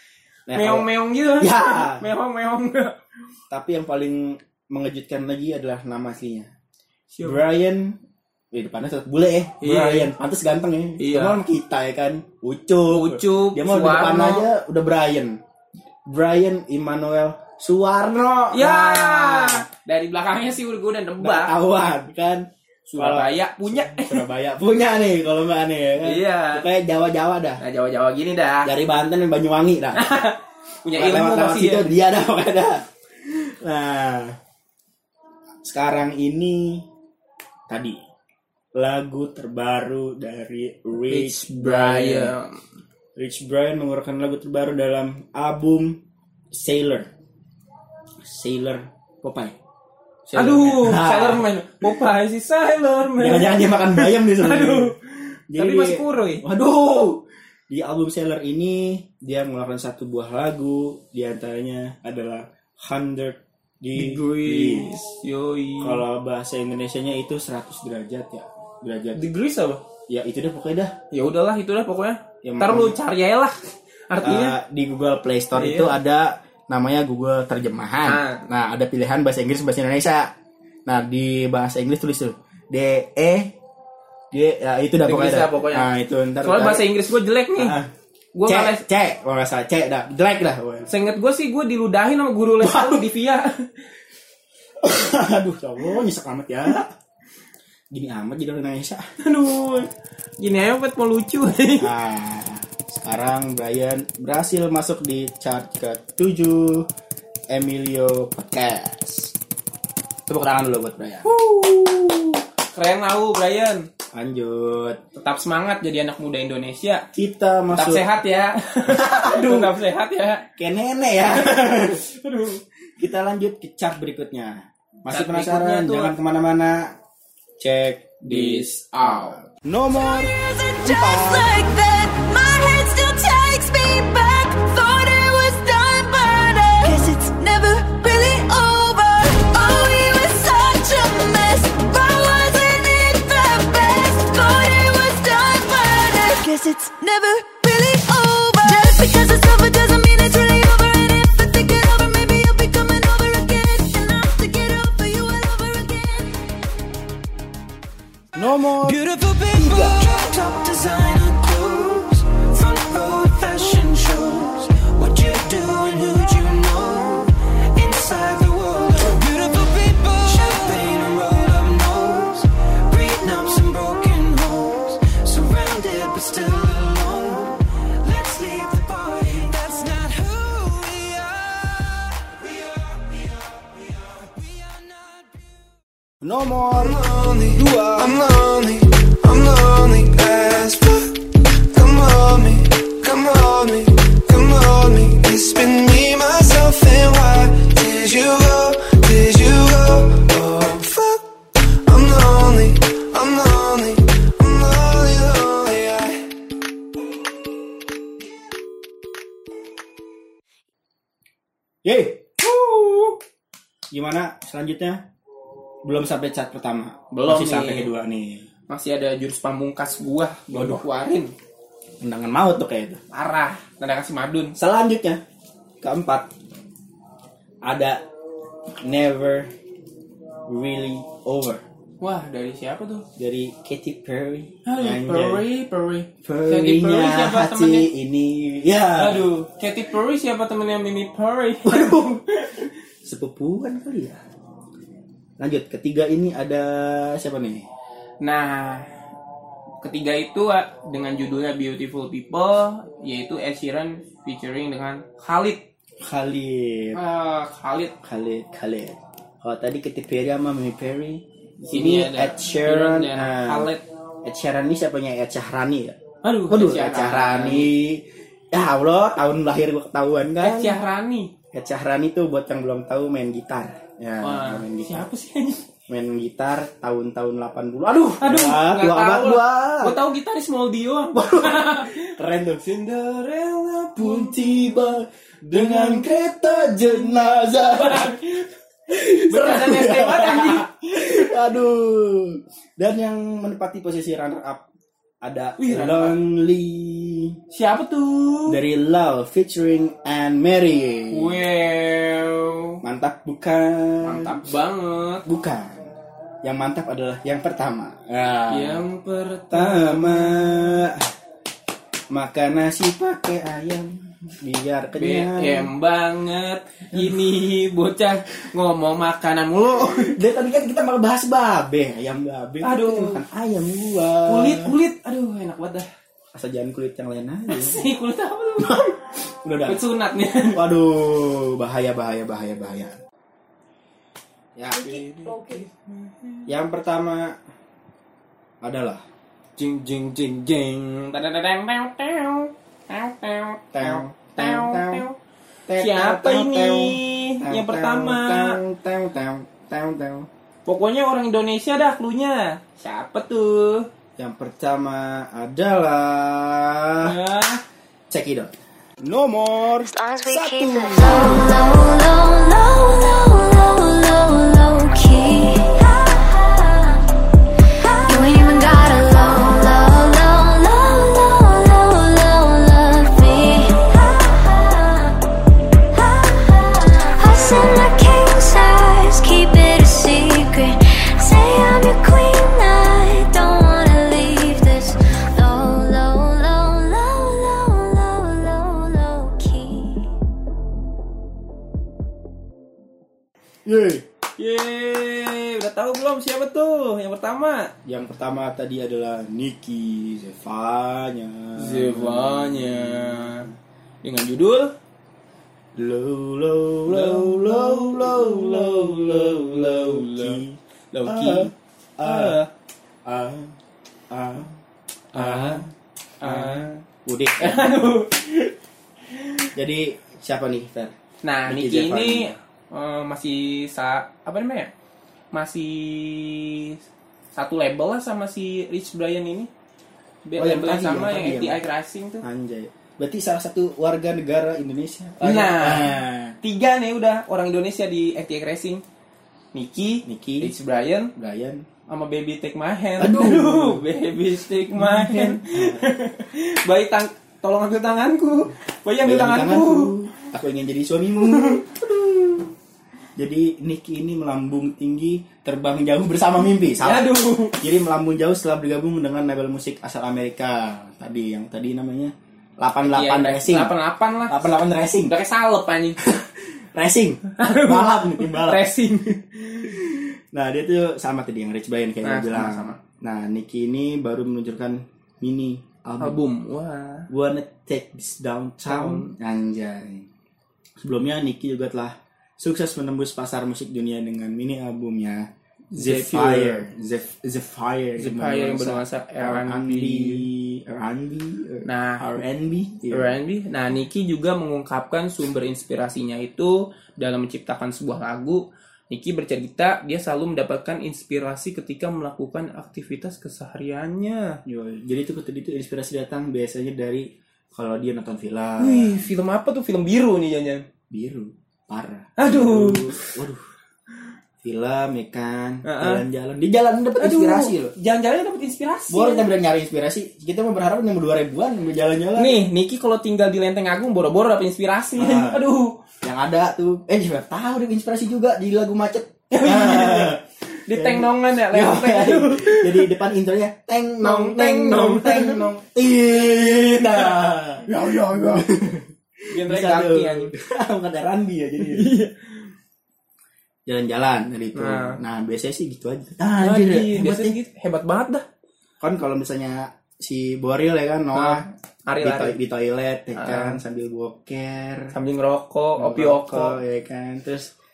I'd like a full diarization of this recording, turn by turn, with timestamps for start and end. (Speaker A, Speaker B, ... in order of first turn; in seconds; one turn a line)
Speaker A: 0.5-2.1
Speaker B: 0.5-2.9
Speaker A: 3.5-6.5
Speaker B: 7.1-7.4
Speaker A: 7.2-8.0
Speaker A: 8.5-15.4
Speaker B: 9.6-10.1
Speaker B: 11.0-11.4
Speaker B: 12.9-14.5
Speaker A: 16.1-19.6
Speaker B: 18.5-21.5
Speaker A: 21.2-27.6
Speaker B: 22.9-24.3
Speaker B: 26.0-26.6
Speaker B: 27.6-28.7
Speaker A: 28.6-30.2
Speaker B: 29.9-31.9
Speaker A: 30.9-34.4
Speaker A: 35.6-36.8
Speaker A: 37.7-38.0
Speaker A: 38.7-42.3
Speaker B: 41.1-42.6
Speaker A: 43.1-46.0
Speaker A: 46.5-47.1
Speaker A: 48.2-49.6
Speaker A: 50.2-51.5
Speaker B: 50.3-55.0
Speaker A: 53.2-54.9
Speaker A: 55.5-65.0
Speaker B: 55.5-56.4
Speaker B: 64.0-66.0
Speaker A: 65.8-69.2
Speaker B: 69.2-69.8
Speaker A: 70.1-70.9
Speaker B: 71.1-73.6
Speaker A: 72.4-73.0
Speaker B: 74.1-74.6
Speaker A: 74.2-80.3
Speaker B: 75.5-76.0
Speaker B: 78.0-78.4
Speaker A: 80.8-83.5
Speaker A: 84.3-86.9
Speaker B: 85.0-85.9
Speaker B: 86.4-87.8
Speaker A: 87.5-87.9
Speaker B: 88.3-88.8
Speaker A: 88.5-90.9
Speaker B: 90.9-93.7
Speaker A: 92.6-93.1
Speaker A: 94.8-96.9
Speaker A: 97.9-99.0
Speaker B: 99.2-101.9
Speaker A: 101.8-106.9
Speaker A: 107.5-109.3
Speaker A: 110.3-111.3
Speaker B: 111.2-113.9
Speaker A: 114.1-115.0
Speaker B: 115.2-117.0
Speaker A: 117.1-118.1
Speaker B: 117.7-120.5
Speaker A: 118.9-119.7
Speaker A: 120.6-122.0
Speaker B: 121.3-122.6
Speaker A: 123.0-126.9
Speaker B: 125.1-126.1
Speaker A: 127.6-131.6
Speaker B: 128.2-129.4
Speaker C: 130.1-156.4
Speaker A: 158.3-159.0
Speaker C: 159.3-181.7
Speaker A: 159.5-160.0
Speaker D: 169.9-170.5
Speaker D: 181.1-181.9
Speaker A: 186.2-188.2
Speaker D: 186.8-187.6
Speaker D: 188.1-191.2
Speaker D: 191.7-201.3
Speaker D: 201.8-206.2
Speaker A: 211.8-212.4
Speaker B: 212.4-213.1
Speaker A: 213.9-215.0
Speaker A: 215.8-218.5
Speaker B: 217.1-217.9
Speaker B: 218.7-221.3
Speaker A: 220.5-220.8
Speaker A: 222.0-223.0
Speaker B: 223.1-224.6
Speaker A: 224.6-225.2
Speaker A: 225.8-226.3
Speaker A: 227.6-228.0
Speaker A: 228.8-229.5
Speaker A: 230.5-231.6
Speaker B: 232.0-233.1
Speaker A: 233.2-235.4
Speaker B: 234.7-237.9
Speaker A: 236.2-239.3
Speaker B: 239.0-242.7
Speaker A: 241.6-242.2
Speaker A: 243.0-244.2
Speaker A: 245.4-247.7
Speaker B: 248.2-248.8
Speaker B: 249.8-255.6
Speaker A: 256.0-257.0
Speaker B: 256.9-257.9
Speaker A: 258.0-263.7
Speaker B: 261.6-263.8
Speaker A: 264.2-266.0
Speaker B: 266.2-267.7
Speaker A: 266.5-270.8
Speaker B: 270.4-271.3
Speaker A: 271.5-275.1
Speaker B: 274.2-275.6
Speaker A: 275.9-280.0
Speaker B: 278.2-288.5
Speaker A: 281.1-282.6
Speaker A: 284.0-288.2
Speaker A: 288.9-294.7
Speaker B: 289.2-290.7
Speaker A: 295.2-297.4
Speaker B: 295.6-296.1
Speaker B: 297.5-298.6
Speaker A: 298.5-301.4
Speaker B: 301.1-302.8
Speaker A: 302.8-304.4
Speaker B: 304.0-305.2
Speaker A: 305.2-305.8
Speaker A: 306.4-308.8
Speaker B: 308.5-310.8
Speaker A: 309.5-311.1
Speaker A: 312.1-315.7
Speaker B: 314.9-320.2
Speaker A: 316.9-317.2
Speaker A: 320.0-324.8
Speaker B: 322.6-323.2
Speaker B: 324.2-325.9
Speaker A: 326.3-327.8
Speaker B: 327.5-329.0
Speaker A: 328.6-328.9
Speaker A: 329.4-329.8
Speaker B: 329.6-330.6
Speaker A: 330.5-333.0
Speaker A: 334.6-335.3
Speaker B: 334.7-336.5
Speaker A: 336.5-337.4
Speaker A: 338.6-339.0
Speaker B: 339.6-345.2
Speaker A: 343.7-345.1
Speaker A: 345.7-350.3
Speaker B: 345.8-348.6
Speaker B: 350.6-353.9
Speaker A: 354.2-357.1
Speaker B: 357.0-357.6
Speaker A: 358.1-358.5
Speaker A: 359.0-361.5
Speaker C: 359.9-367.0
Speaker C: 368.0-375.2
Speaker C: 375.9-390.1
Speaker A: 393.6-394.0
Speaker B: 394.4-397.7
Speaker A: 397.8-403.5
Speaker B: 401.6-403.5
Speaker B: 404.0-404.7
Speaker A: 405.8-412.4
Speaker B: 406.9-411.5
Speaker B: 412.0-412.5
Speaker A: 413.0-413.5
Speaker A: 414.1-414.6
Speaker B: 415.1-415.6
Speaker A: 415.1-417.9
Speaker B: 416.2-416.8
Speaker B: 417.4-418.5
Speaker A: 419.5-420.9
Speaker B: 421.2-424.7
Speaker A: 421.4-422.4
Speaker B: 425.3-426.8
Speaker B: 427.3-429.5
Speaker B: 430.2-432.2
Speaker A: 430.4-431.6
Speaker A: 432.2-436.4
Speaker B: 435.2-438.8
Speaker B: 439.5-441.1
Speaker A: 440.0-440.5
Speaker A: 441.1-441.6
Speaker B: 441.9-449.9
Speaker A: 443.0-443.8
Speaker A: 444.7-445.9
Speaker A: 449.0-452.5
Speaker B: 451.2-451.6
Speaker A: 453.1-463.7
Speaker B: 456.8-457.7
Speaker B: 462.9-464.4
Speaker A: 464.3-465.1
Speaker B: 465.1-466.0
Speaker A: 466.0-468.7
Speaker B: 467.4-469.8
Speaker A: 469.6-476.2
Speaker B: 472.0-472.8
Speaker B: 476.0-477.1
Speaker A: 477.1-480.1
Speaker B: 478.6-479.1
Speaker A: 480.8-493.2
Speaker B: 485.7-486.7
Speaker B: 488.0-490.3
Speaker B: 491.6-492.1
Speaker B: 492.9-504.4
Speaker A: 504.4-509.1
Speaker B: 508.6-510.7
Speaker A: 510.9-513.4
Speaker B: 512.2-513.2
Speaker A: 514.4-517.7
Speaker B: 515.6-516.0
Speaker B: 517.0-519.2
Speaker A: 518.9-522.4
Speaker B: 522.1-525.8
Speaker A: 525.0-525.5
Speaker A: 526.0-541.9
Speaker B: 529.3-532.9
Speaker B: 534.0-535.7
Speaker B: 536.5-538.5
Speaker B: 539.3-540.3
Speaker B: 541.6-542.5
Speaker A: 543.6-547.4
Speaker B: 544.5-545.0
Speaker B: 546.4-548.2
Speaker A: 548.8-551.5
Speaker B: 551.1-552.3
Speaker A: 552.0-555.0
Speaker B: 553.1-553.6
Speaker B: 554.9-556.6
Speaker A: 555.8-557.5